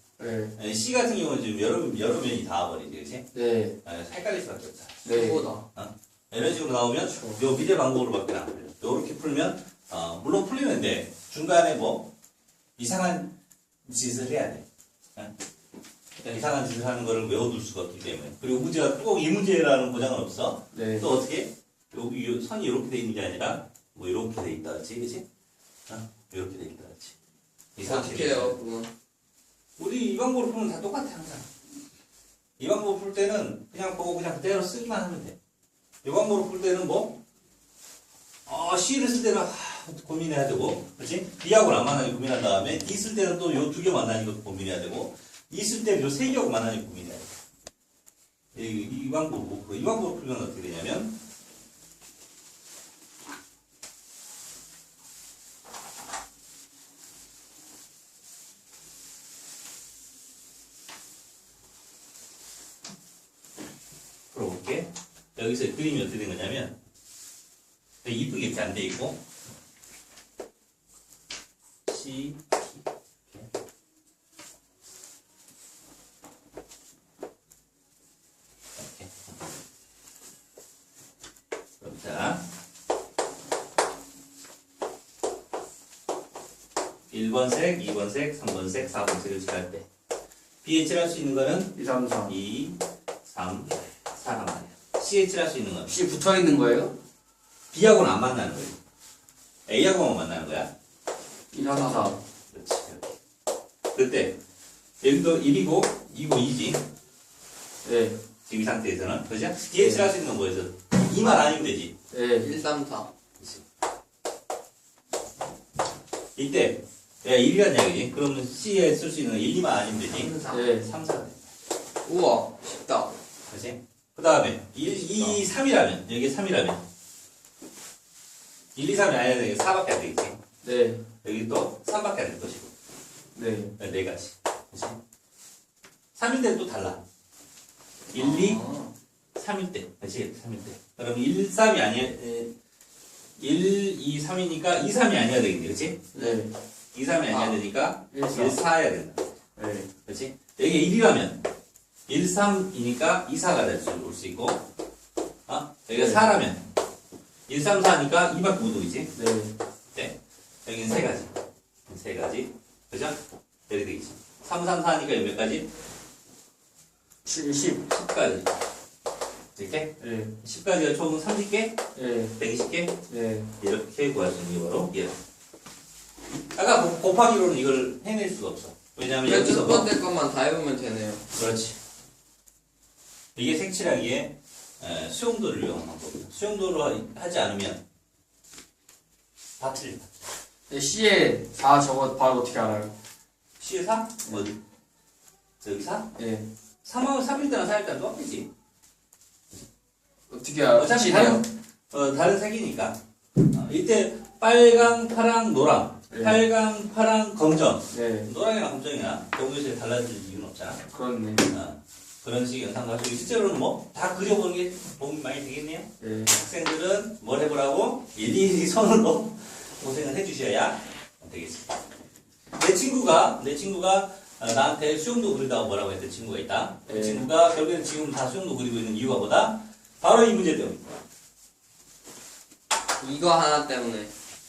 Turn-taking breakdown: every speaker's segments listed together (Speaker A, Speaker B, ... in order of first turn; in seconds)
Speaker A: 0.2-0.6, 3.3-3.8, 5.0-5.5, 7.2-7.4, 20.7-21.1, 91.7-92.3, 95.9-96.9, 101.5-102.2, 107.8-108.2, 109.8-110.1, 112.1-112.5, 120.5-120.9, 130.6-131.0, 133.3-133.7, 146.1-146.5, 148.1-148.6, 149.6-149.9, 155.9-156.2, 159.1-159.6, 167.2-167.9, 170.0-170.3, 171.9-172.3, 173.1-173.5, 190.7-192.9, 196.2-196.5, 200.3-201.4, 206.1-206.4, 207.9-208.3, 210.9-211.5, 216.0-216.3, 226.9-227.3
Speaker B: 0.6-3.2, 3.8-5.0, 5.7-12.1, 12.8-14.6, 16.3-25.2, 25.9-27.1, 27.8-28.6, 29.8-31.5, 32.6-35.4, 36.0-37.2, 38.5-47.3, 48.5-51.1, 64.3-66.7, 68.0-69.2, 71.8-73.5, 78.8-79.1, 81.8-82.4, 87.1-89.8, 90.6-91.7, 92.3-95.9, 97.7-98.8, 99.7-100.7, 102.5-103.2, 103.9-104.4, 105.0-106.8, 108.5-111.9, 116.3-121.5, 123.5-126.8, 128.7-130.4, 131.2-132.7, 133.8-135.0, 136.2-137.0, 138.1-138.6, 139.3-142.5, 143.4-146.2, 146.9-149.4, 150.1-151.4, 152.1-154.6, 155.5-156.6, 157.5-159.1, 159.9-165.7, 167.9-168.5, 169.6-171.8, 172.4-173.0, 173.6-175.2, 176.5-179.9, 181.3-181.8, 183.3-187.8, 189.6-190.1, 193.6-194.6, 195.6-196.1, 196.8-198.5, 200.7-210.8, 211.5-221.7, 222.6-231.0
Speaker C: 5.0-5.6, 27.8-28.9, 112.4-113.1, 120.1-120.7, 122.0-123.1, 138.2-138.9, 147.3-147.6, 179.2-181.2, 233.0-234.1